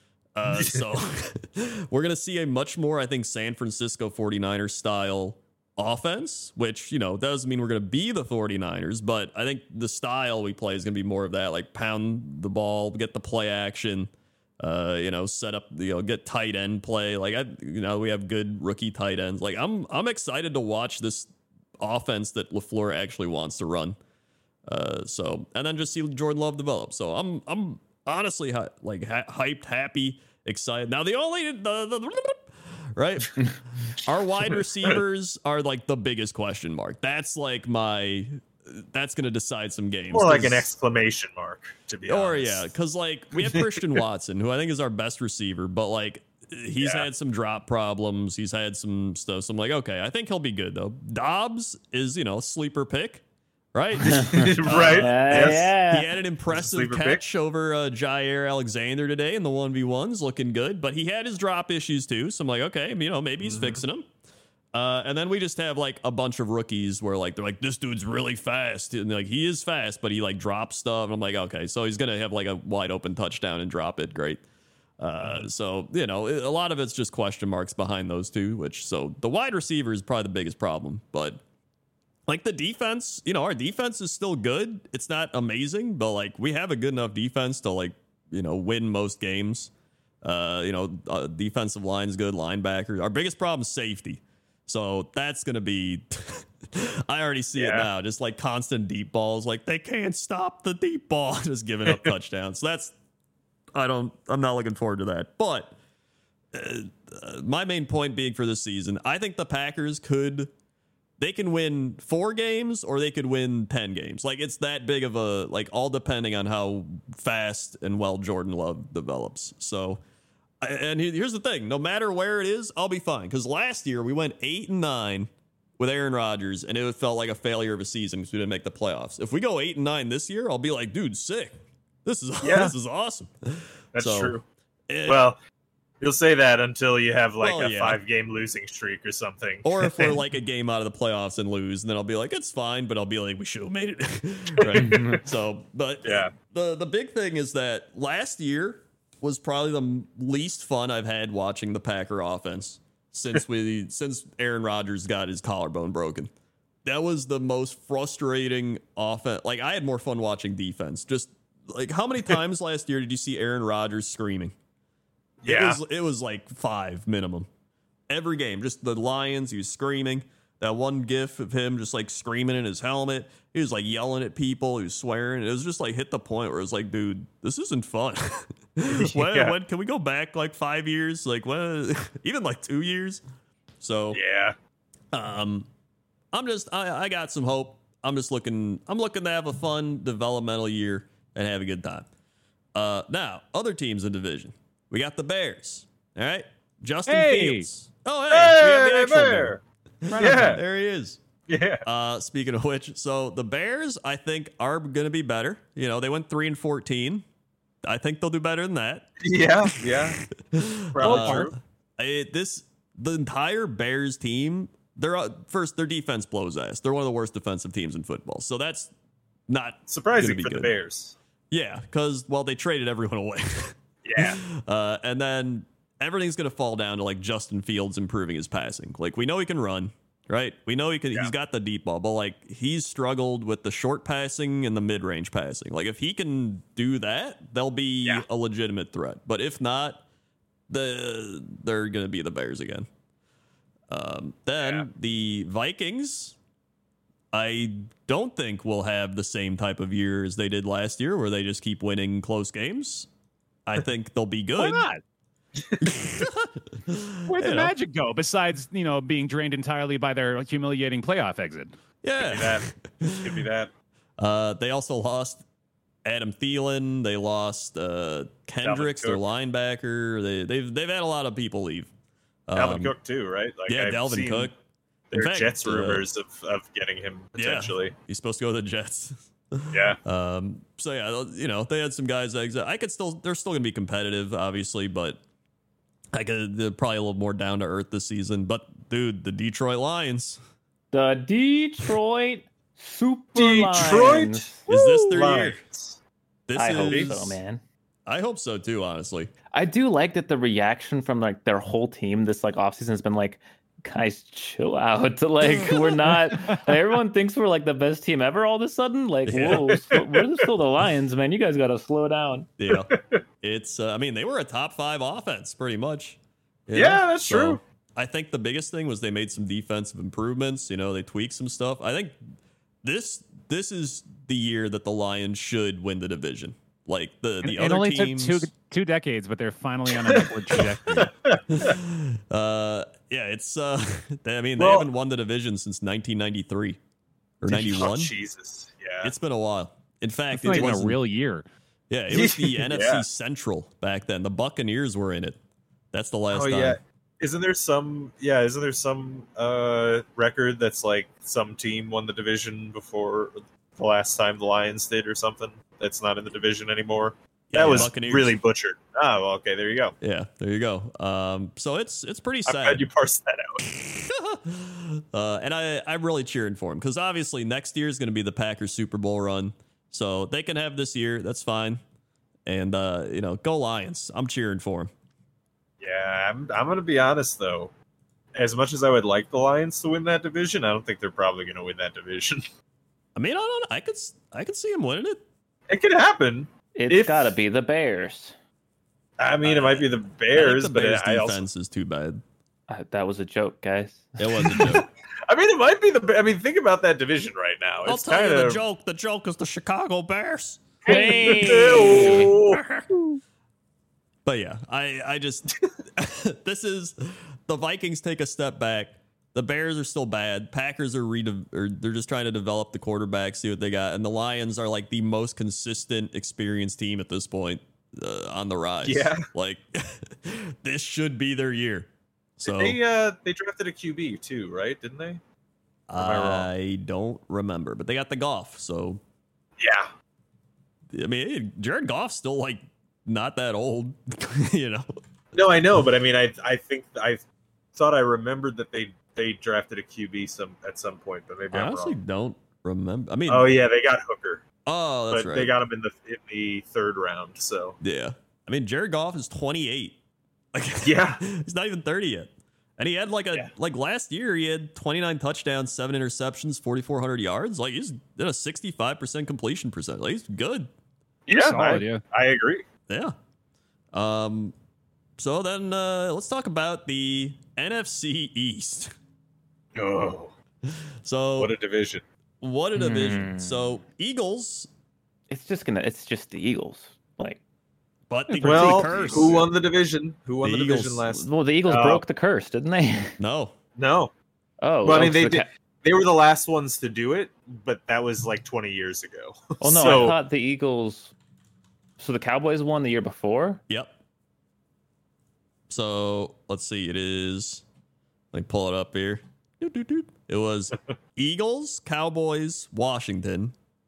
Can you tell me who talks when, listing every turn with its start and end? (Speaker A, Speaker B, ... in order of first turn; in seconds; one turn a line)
Speaker A: 0.3-24.0
Speaker B: 0.5-0.8
Speaker A: 24.7-40.7
Speaker B: 40.1-42.7
Speaker A: 42.1-53.2
Speaker B: 43.4-43.8
Speaker B: 46.8-47.1
Speaker A: 53.7-64.1
Speaker C: 54.0-56.1
Speaker B: 54.3-55.7
Speaker B: 56.5-57.2
Speaker B: 63.4-63.8
Speaker A: 64.7-74.4
Speaker A: 75.0-81.4
Speaker A: 82.3-89.7
Speaker A: 90.2-102.9
Speaker B: 97.6-97.9
Speaker A: 103.7-105.8
Speaker A: 106.5-110.5
Speaker A: 111.2-120.0
Speaker A: 120.6-134.4
Speaker B: 132.4-132.8
Speaker B: 133.9-134.4
Speaker A: 134.9-135.2
Speaker B: 135.1-135.4
Speaker B: 136.0-140.2
Speaker A: 137.4-138.0
Speaker A: 139.6-156.3
Speaker B: 144.6-145.2
Speaker B: 146.0-146.3
Speaker A: 156.8-164.6
Speaker B: 165.4-165.8
Speaker A: 165.5-167.5
Speaker A: 168.1-183.2
Speaker B: 178.9-179.6
Speaker A: 183.8-184.2
Speaker B: 184.1-184.6
Speaker A: 185.1-185.7
Speaker A: 186.3-192.1
Speaker A: 192.8-201.2
Speaker D: 197.1-197.7
Speaker B: 198.3-199.6
Speaker D: 200.1-200.6
Speaker B: 200.2-200.6
Speaker B: 201.5-201.8
Speaker A: 201.8-207.2
Speaker A: 207.8-209.1
Speaker B: 209.2-210.2
Speaker A: 210.4-218.9
Speaker B: 210.9-211.6
Speaker D: 211.0-211.4
Speaker A: 219.5-220.7
Speaker B: 219.9-221.2
Speaker A: 221.5-240.0
Speaker B: 224.0-224.4
Speaker A: 240.7-242.9
Speaker A: 243.9-246.4
Speaker B: 244.6-244.9
Speaker A: 247.3-253.1
Speaker A: 253.7-254.9
Speaker D: 254.6-255.0
Speaker A: 255.8-257.7
Speaker D: 257.3-261.7
Speaker A: 262.0-263.5
Speaker B: 262.2-263.7
Speaker A: 264.2-265.4
Speaker A: 266.1-271.9
Speaker B: 268.6-269.2
Speaker A: 272.5-272.9
Speaker B: 272.6-274.5
Speaker A: 273.7-274.5
Speaker B: 275.1-277.9
Speaker A: 275.1-276.1
Speaker A: 277.4-285.2
Speaker B: 279.7-280.0
Speaker A: 286.1-290.4
Speaker C: 290.9-294.7
Speaker B: 293.4-296.0
Speaker A: 294.7-295.6
Speaker A: 296.5-297.4
Speaker C: 296.6-297.6
Speaker A: 298.1-299.3
Speaker C: 299.5-312.5
Speaker A: 309.3-309.8
Speaker B: 309.4-310.2
Speaker A: 312.6-322.2
Speaker B: 312.7-313.2
Speaker B: 316.7-317.6
Speaker A: 322.8-328.5
Speaker D: 327.4-331.2
Speaker B: 330.1-331.7
Speaker A: 331.5-336.8
Speaker B: 334.6-334.9
Speaker A: 337.4-338.1
Speaker B: 337.5-339.1
Speaker A: 339.0-341.0
Speaker D: 340.3-341.4
Speaker A: 341.9-345.4
Speaker B: 342.1-343.0
Speaker A: 345.9-346.8
Speaker B: 346.3-359.9
Speaker A: 357.5-358.4
Speaker A: 360.0-362.9
Speaker B: 362.5-363.6
Speaker A: 363.7-371.8
Speaker A: 372.5-374.9
Speaker B: 375.8-377.7
Speaker B: 378.4-382.5
Speaker A: 383.1-385.2
Speaker B: 385.7-387.4
Speaker C: 386.8-388.4
Speaker B: 389.2-391.4
Speaker A: 389.4-392.2
Speaker C: 392.7-394.6
Speaker A: 394.2-394.9
Speaker B: 394.5-398.6
Speaker A: 397.9-402.9
Speaker C: 400.9-402.3
Speaker B: 400.9-402.6
Speaker A: 404.2-422.8
Speaker B: 418.8-419.3
Speaker B: 422.4-425.2
Speaker A: 425.9-429.0
Speaker B: 426.0-426.5
Speaker B: 429.6-429.9
Speaker A: 430.9-434.9
Speaker B: 435.3-437.2
Speaker B: 437.8-442.0
Speaker A: 441.5-443.5
Speaker B: 443.3-444.4
Speaker A: 444.7-445.5
Speaker B: 445.1-447.8
Speaker A: 447.8-450.0
Speaker A: 450.5-460.7
Speaker B: 450.8-451.2
Speaker B: 461.3-462.6
Speaker D: 461.3-462.0
Speaker A: 462.9-463.2
Speaker A: 463.9-464.5
Speaker A: 465.2-468.9
Speaker B: 469.8-470.3
Speaker A: 470.7-471.5
Speaker B: 471.4-472.0
Speaker A: 472.4-474.7
Speaker C: 472.7-473.8
Speaker C: 475.3-477.4
Speaker A: 478.1-479.5
Speaker B: 478.4-482.0
Speaker C: 478.6-479.4
Speaker A: 480.4-481.1
Speaker C: 481.1-483.1
Speaker A: 483.2-483.6
Speaker B: 483.8-484.1
Speaker C: 484.6-485.5
Speaker B: 484.8-490.2
Speaker C: 489.6-491.1
Speaker C: 492.0-493.6
Speaker A: 493.7-493.9
Speaker A: 495.7-497.6
Speaker A: 498.3-503.5